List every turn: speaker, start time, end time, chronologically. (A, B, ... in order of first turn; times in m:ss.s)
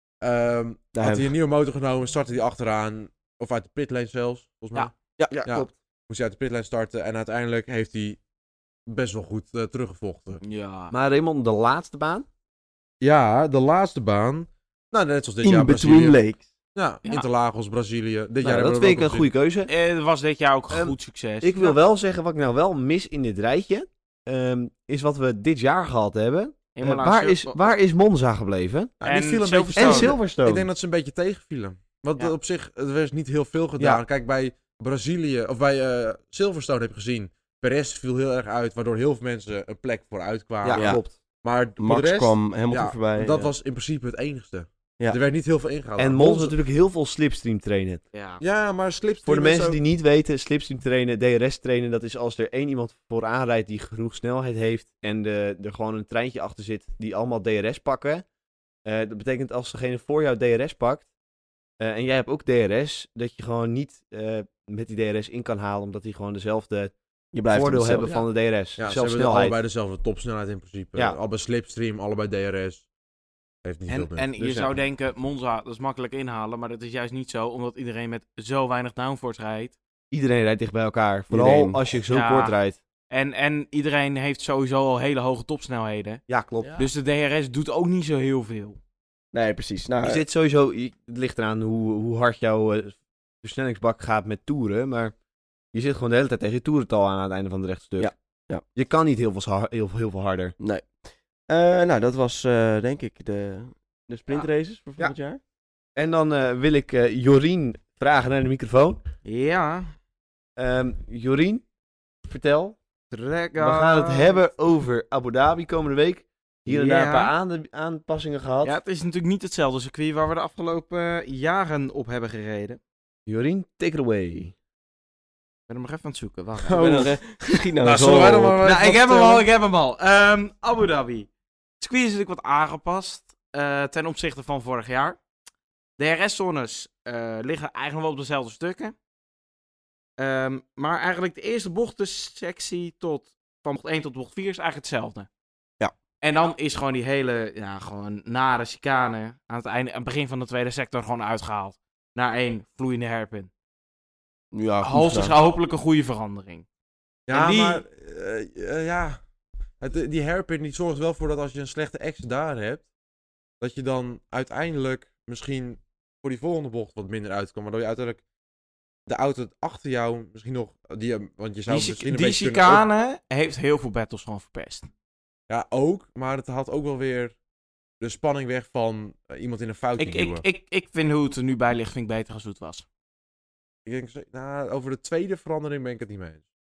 0:00.2-0:04.9 A
0:01.0-0:01.3 B
0:05.2-0:05.4 B
0:05.3-0:05.7 C
0:05.4-0:08.2 A
0:08.9-0:10.4 A
0:10.4-0:10.9 D
0:10.9-0:12.3 C
0:13.0-0:16.2 A
0:15.4-0:16.4 B
0:16.8-0:19.3 A
0:18.4-0:19.7 C
0:19.7-0:21.8 D
0:20.7-0:28.9 C
0:26.8-0:27.6 D
0:29.0-0:46.6 A
0:29.0-0:30.1 D
0:29.8-0:30.7 C
0:33.8-0:34.0 C
0:40.6-0:41.1 C
0:40.7-0:41.0 B
0:41.8-0:43.5 B
0:46.0-0:48.0 C
0:48.1-0:48.4 D
0:48.4-0:49.8 A
0:49.2-0:58.2 C
0:58.8-1:01.1 C
1:01.8-1:06.9 C
1:07.3-1:08.3 B
1:07.5-1:09.6 C
1:08.8-1:12.8 A
1:13.6-1:14.3 A
1:13.9-1:19.8 D
1:14.4-1:14.7 C
1:20.1-1:22.8 C
1:21.3-1:21.8 B
1:22.1-1:22.6 D
1:23.1-1:26.2 D
1:26.3-1:26.8 C
1:26.6-1:26.9 B
1:26.8-1:28.8 D
1:29.3-1:30.2 B
1:30.0-1:35.1 C
1:35.7-1:38.1 C
1:38.0-1:38.6 B
1:38.8-1:40.6 C
1:40.6-1:40.9 B
1:41.5-1:45.4 B
1:46.0-1:49.0 C
1:49.2-1:49.9 D
1:50.6-1:51.6 C
1:52.2-1:52.8 C
1:53.1-1:54.4 D
1:53.6-1:58.8 C
1:56.7-1:57.3 D
1:58.6-2:02.8 D
2:03.3-2:04.6 C
2:05.7-2:07.2 D
2:06.7-2:07.1 A
2:06.7-2:08.6 B
2:07.8-2:09.4 A
2:08.6-2:11.3 D
2:11.8-2:15.2 D
2:16.0-2:19.0 D
2:20.2-2:25.3 D
2:26.2-2:33.5 D
2:34.5-2:35.4 B
2:34.8-2:36.6 D
2:37.3-2:39.2 A
2:37.3-2:37.8 D
2:39.8-2:42.9 A
2:43.6-2:48.2 A
2:49.1-2:52.9 A
2:51.7-2:54.9 D
2:55.5-2:57.4 A
2:58.0-3:00.4 A
3:00.0-3:02.8 D
3:03.8-3:06.4 A